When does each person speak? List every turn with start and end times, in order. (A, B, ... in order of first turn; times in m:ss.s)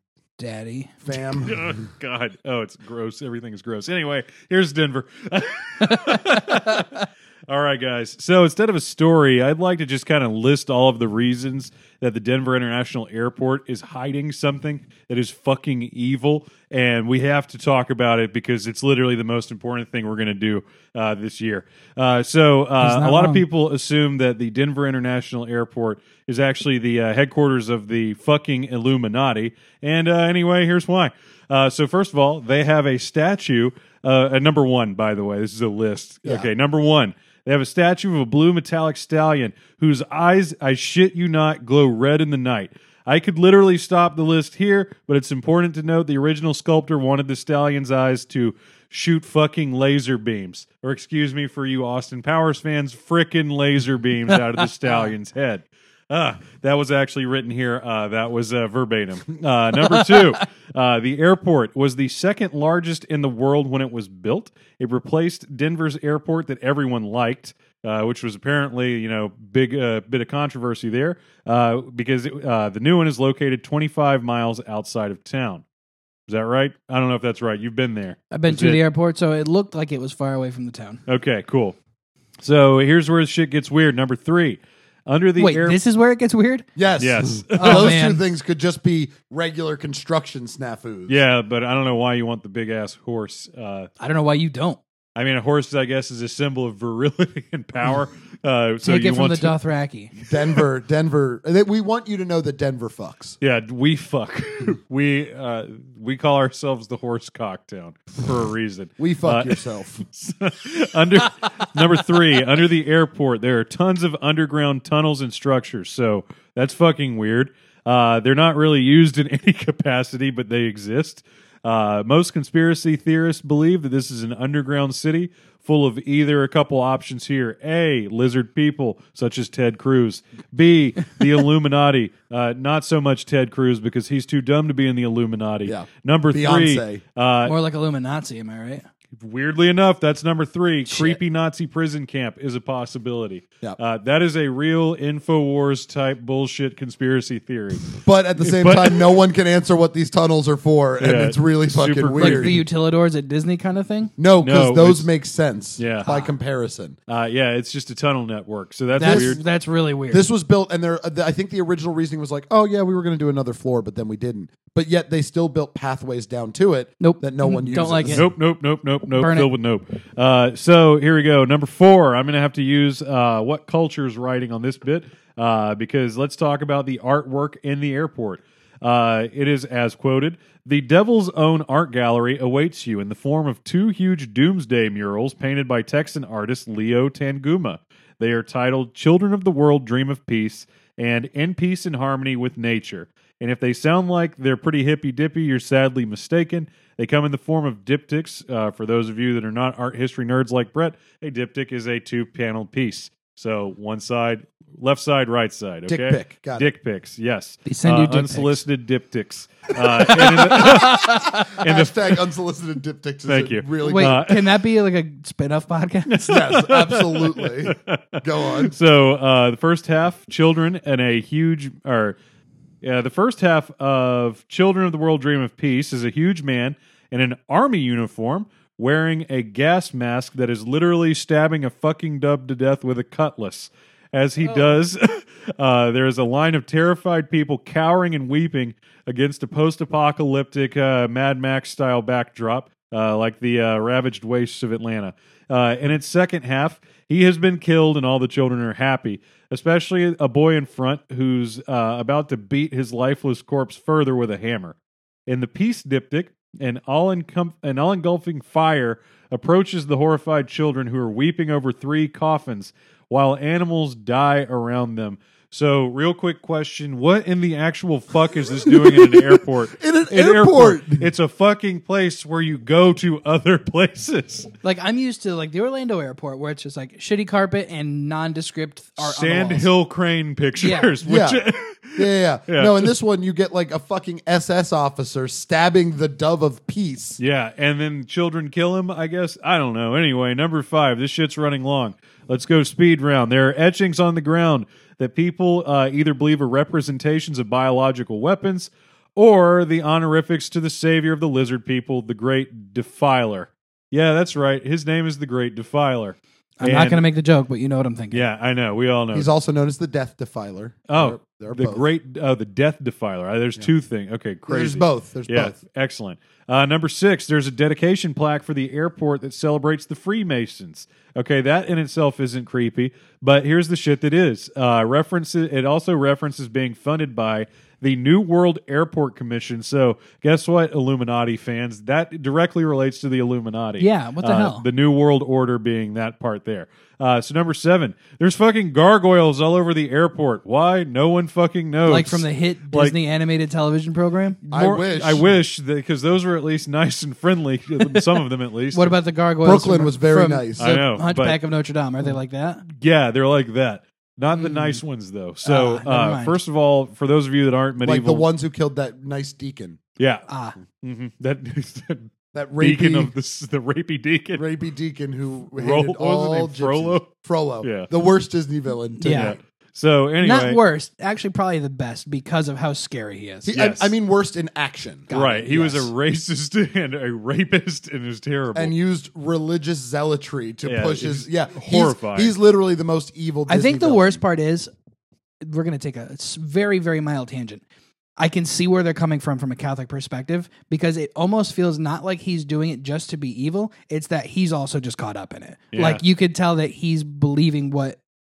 0:00.4-0:01.0 A
0:01.0-0:01.8 B
0:01.3-1:15.6 C
0:05.8-0:06.8 A
0:22.8-0:23.4 A
1:16.3-1:18.8 C
1:18.3-1:21.0 A
1:21.1-1:21.8 C
1:22.4-1:25.8 C
1:25.4-1:26.7 A
1:26.8-1:31.2 B
1:27.0-1:28.0 C
1:27.5-1:28.2 A
1:31.1-1:33.9 C
1:34.0-1:34.8 A
1:35.2-1:39.5 C
1:38.8-1:40.1 A
1:40.2-1:40.6 C
1:40.3-1:43.4 B
1:43.4-2:17.5 C
1:49.0-1:50.0 B
2:15.6-2:17.0 B
2:17.4-2:18.8 A
2:19.1-2:29.1 C
2:20.9-2:21.2 A
2:28.0-2:32.6 B
2:31.0-2:32.6 C
2:32.2-2:34.1 A
2:34.2-2:37.0 B
2:34.4-2:35.1 C
2:35.8-2:36.1 C
2:36.0-2:36.3 A
2:37.1-2:39.4 C
2:39.0-2:40.3 A
2:39.0-2:39.4 B
2:40.1-2:48.3 B
2:47.0-2:48.3 A
2:48.1-3:32.2 C
2:49.1-2:49.5 A
3:25.9-3:26.7 B
3:27.6-3:28.6 A
3:30.2-3:34.2 B
3:33.3-3:34.6 C
3:33.8-3:36.4 A
3:36.1-3:42.2 C
3:36.2-3:38.8 B
3:42.8-4:14.8 C
4:15.3-4:34.5 C
4:28.6-4:31.0 B
4:34.6-4:39.7 A
4:39.0-4:42.9 C
4:40.6-4:40.9 A
4:41.0-4:41.4 B
4:42.0-4:47.2 B
4:47.2-5:07.0 C
5:06.6-5:08.2 A
5:08.1-5:09.3 C
5:09.1-5:11.8 B
5:10.9-5:43.0 C
5:14.5-5:15.6 B
5:33.8-5:34.6 A
5:41.8-5:44.4 A
5:44.5-5:48.9 C
5:44.5-5:45.3 B
5:48.7-5:52.6 A
5:49.4-5:50.6 B
5:50.6-5:51.4 C
5:52.6-5:58.3 C
5:54.3-5:54.8 A
5:55.4-5:56.4 A
5:57.8-5:59.8 B
6:00.0-6:04.4 C
6:00.3-6:00.6 A
6:02.3-6:03.1 B
6:04.4-6:09.4 B
6:05.5-6:07.9 C
6:09.0-6:09.4 A
6:09.1-6:10.6 C
6:10.2-6:13.5 A
6:13.4-6:15.1 B
6:13.5-6:13.9 C
6:15.1-6:15.9 A
6:15.1-6:18.7 C
6:18.5-6:24.2 B
6:20.6-6:22.3 C
6:23.5-6:24.7 A
6:25.4-6:27.6 A
6:28.2-6:38.0 A
6:35.7-6:36.0 C